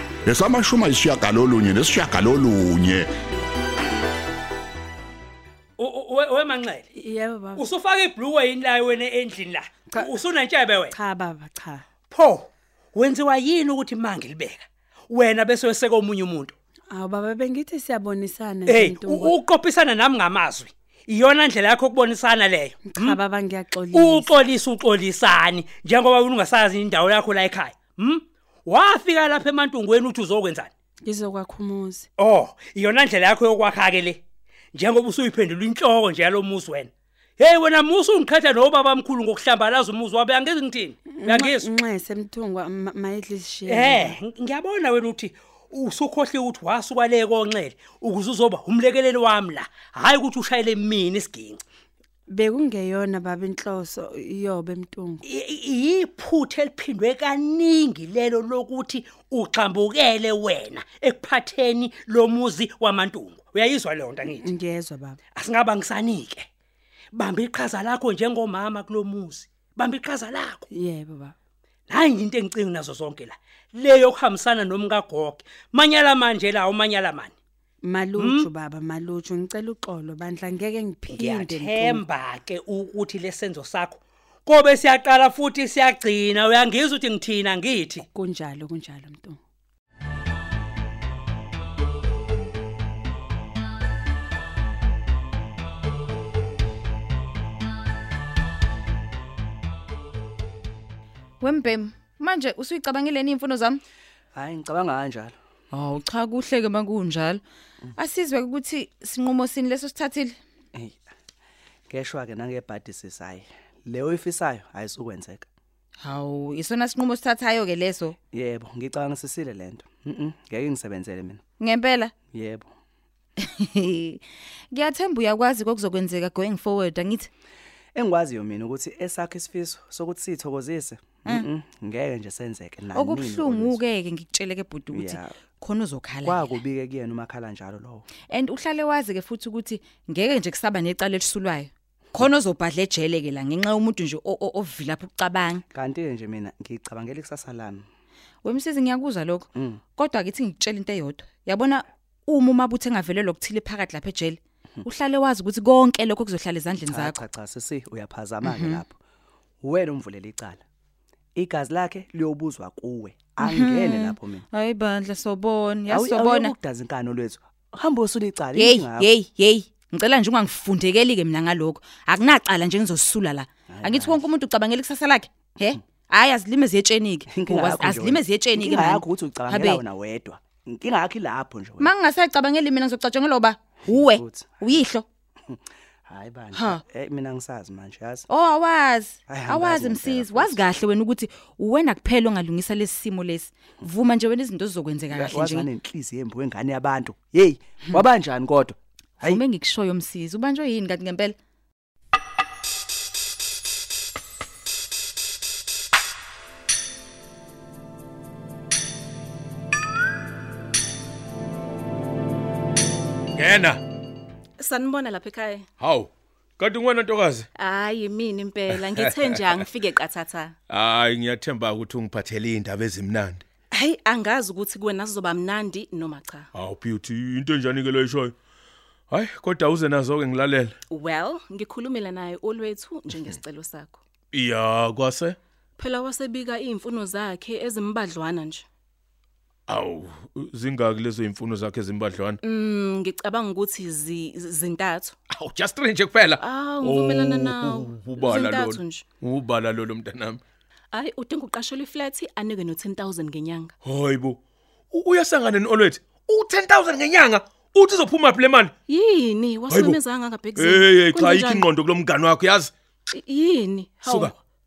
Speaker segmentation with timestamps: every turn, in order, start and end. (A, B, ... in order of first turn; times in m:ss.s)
0:00.2-0:03.1 A
0:05.8-0:06.9 B
0:07.0-0:07.7 C
0:07.6-0:11.0 B
0:10.9-0:11.8 C
0:12.1-0:16.6 B
0:16.9-0:19.4 C
0:18.7-0:23.2 B
0:22.8-0:24.4 C
0:23.9-0:30.7 B
0:31.0-0:32.1 C
0:32.2-0:34.2 B
0:34.7-0:41.7 B
0:41.1-0:44.2 C
0:43.7-0:51.6 B
0:52.3-0:55.2 C
0:55.2-1:04.5 B
1:04.3-1:05.2 C
1:05.3-1:06.5 B
1:07.1-1:10.6 B
1:10.7-1:11.4 C
1:11.9-1:17.4 B
1:17.8-1:22.0 C
1:18.2-1:18.5 B
1:21.1-1:28.1 B
1:28.1-1:29.4 C
1:41.4-1:43.8 D
1:44.4-1:45.3 E
1:45.7-1:47.4 D
1:48.0-1:50.4 D
1:50.7-1:51.0 E
1:51.9-1:55.5 E
1:56.0-1:58.2 D
1:58.3-2:01.4 E
2:01.6-2:02.1 D
2:02.3-2:02.7 E
2:03.4-2:07.3 D
2:08.0-2:13.8 E
2:13.0-2:16.6 D
2:14.9-2:15.3 E
2:16.2-2:18.1 E
2:18.3-2:25.6 D
2:25.7-2:27.8 E
2:28.4-2:37.2 D
2:29.6-2:29.8 E
2:36.9-2:39.0 E
2:38.4-2:38.8 D
2:39.6-2:40.6 E
2:41.4-2:44.4 E
2:43.4-2:46.5 D
2:45.9-2:49.1 E
2:48.5-2:59.8 D
2:53.7-2:54.2 E
2:57.3-3:01.9 E
3:01.8-3:05.0 D
3:03.9-3:04.8 E
3:05.5-3:08.3 E
3:06.5-3:06.8 D
3:08.3-3:15.7 D
3:09.3-3:10.6 E
3:15.1-3:19.4 E
3:19.2-3:21.4 D
3:34.6-3:35.7 F
3:36.6-3:37.4 G
3:37.6-3:40.5 F
3:40.8-3:43.4 G
3:43.7-3:46.5 F
3:46.6-3:48.3 G
3:49.1-3:50.7 G
3:50.9-3:54.0 F
3:54.4-3:55.3 G
3:55.8-3:58.6 F
3:59.7-4:02.4 G
4:02.4-4:05.2 F
4:05.4-4:06.4 G
4:06.4-4:09.1 F
4:07.3-4:07.5 G
4:08.3-4:08.6 G
4:09.3-4:10.4 G
4:10.9-4:13.7 F
4:13.9-4:14.4 G
4:14.9-4:18.7 G
4:18.9-4:21.7 F
4:20.9-4:22.7 G
4:23.1-4:24.4 F